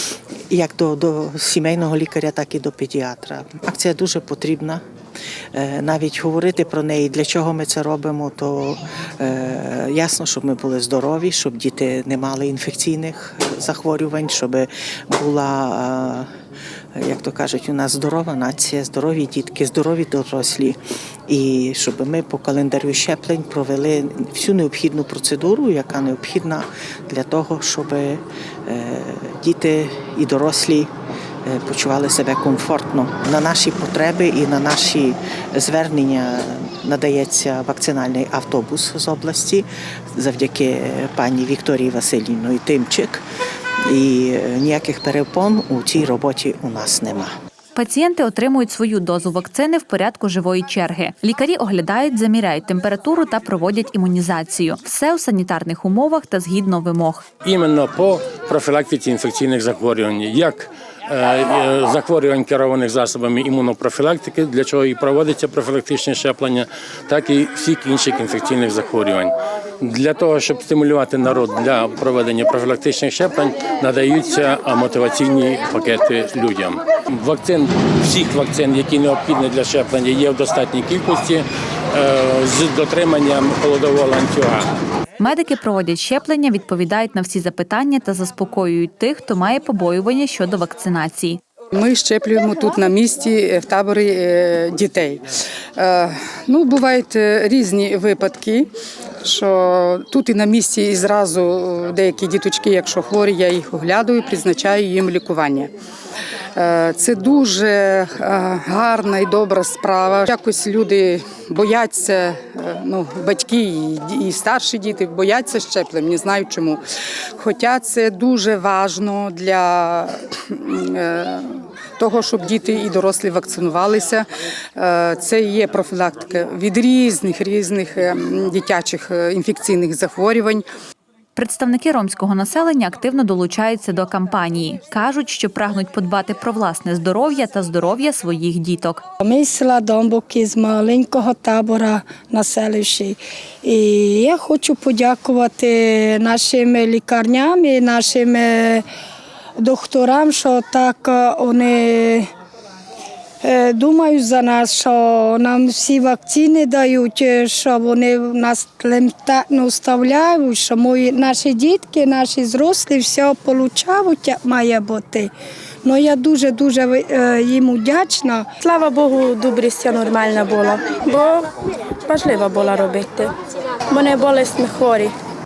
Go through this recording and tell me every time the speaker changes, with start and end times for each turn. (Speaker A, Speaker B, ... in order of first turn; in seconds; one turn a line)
Speaker A: 0.5-4.8
Speaker A: 5.5-16.3
Speaker A: 16.9-30.9
Speaker A: 31.4-43.2
Speaker A: 43.8-47.3
Speaker B: 47.7-57.2
Speaker C: 57.4-84.7
Speaker B: 85.2-91.4
Speaker D: 91.7-105.7
Speaker D: 106.5-116.8
Speaker D: 117.3-130.7
Speaker B: 131.3-139.0
Speaker E: 139.2-148.8
Speaker E: 149.6-152.3
Speaker E: 153.4-165.3
Speaker E: 165.8-168.5
Speaker F: 168.6-171.0
Speaker F: 172.1-172.6
Speaker F: 173.9-175.0